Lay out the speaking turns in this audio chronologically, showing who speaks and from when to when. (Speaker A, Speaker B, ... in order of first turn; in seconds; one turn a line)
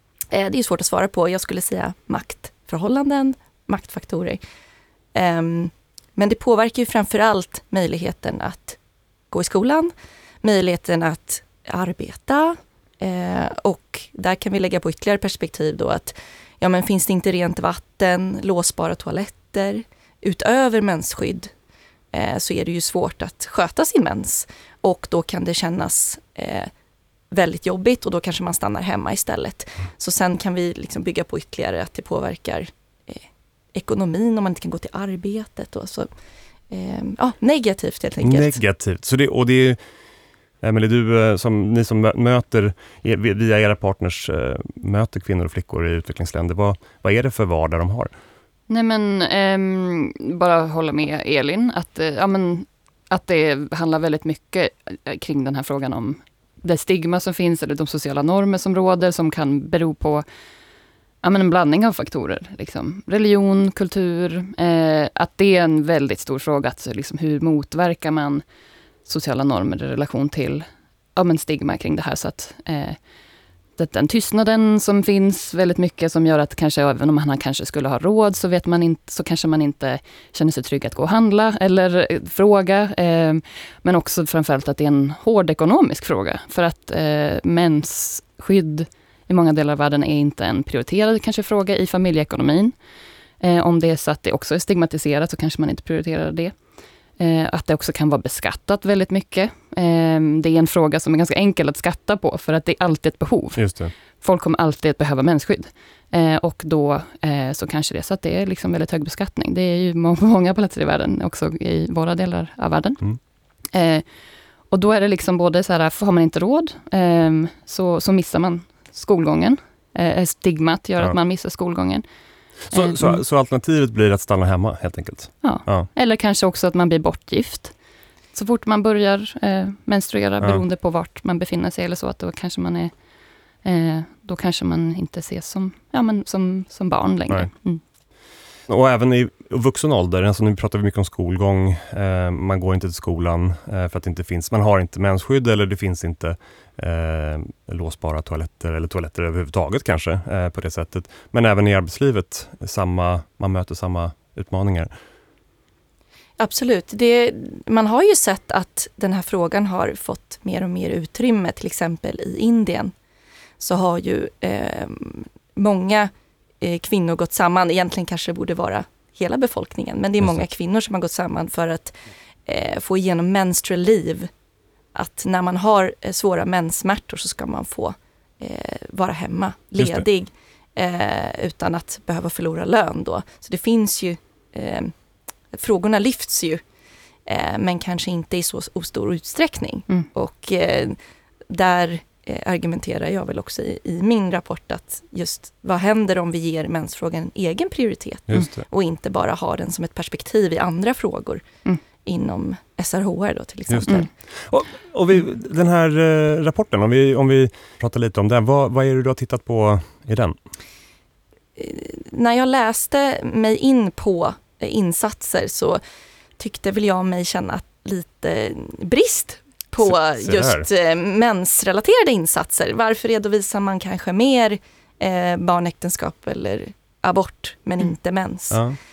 Speaker A: 0.3-4.4
Speaker A: 5.1-8.8
Speaker A: 9.3-9.9
Speaker A: 10.4-21.5
Speaker A: 22.1-26.7
Speaker A: 27.3-36.1
Speaker A: 36.7-38.6
Speaker B: 38.2-39.8
Speaker B: 40.6-48.1
Speaker C: 48.7-60.2
Speaker C: 61.2-68.4
Speaker C: 69.0-73.0
Speaker C: 73.8-92.7
Speaker C: 93.4-96.6
Speaker C: 97.2-113.0
Speaker B: 103.5-103.9
Speaker C: 113.7-114.0
Speaker C: 114.7-122.0
Speaker C: 122.7-123.2
Speaker B: 122.7-125.9
Speaker C: 125.4-127.7
Speaker C: 128.3-132.9
Speaker C: 133.6-137.8
Speaker B: 138.7-154.9
Speaker A: 156.4-162.9
Speaker A: 163.6-174.3
Speaker A: 174.9-184.9
Speaker B: 179.8-180.1
Speaker A: 185.5-186.6
Speaker A: 187.2-191.0
Speaker A: 191.5-201.4
Speaker B: 198.3-198.6
Speaker A: 202.0-204.1
Speaker B: 203.7-210.4
Speaker A: 211.6-215.8
Speaker A: 216.4-228.6
Speaker B: 219.8-220.7
Speaker B: 228.5-228.8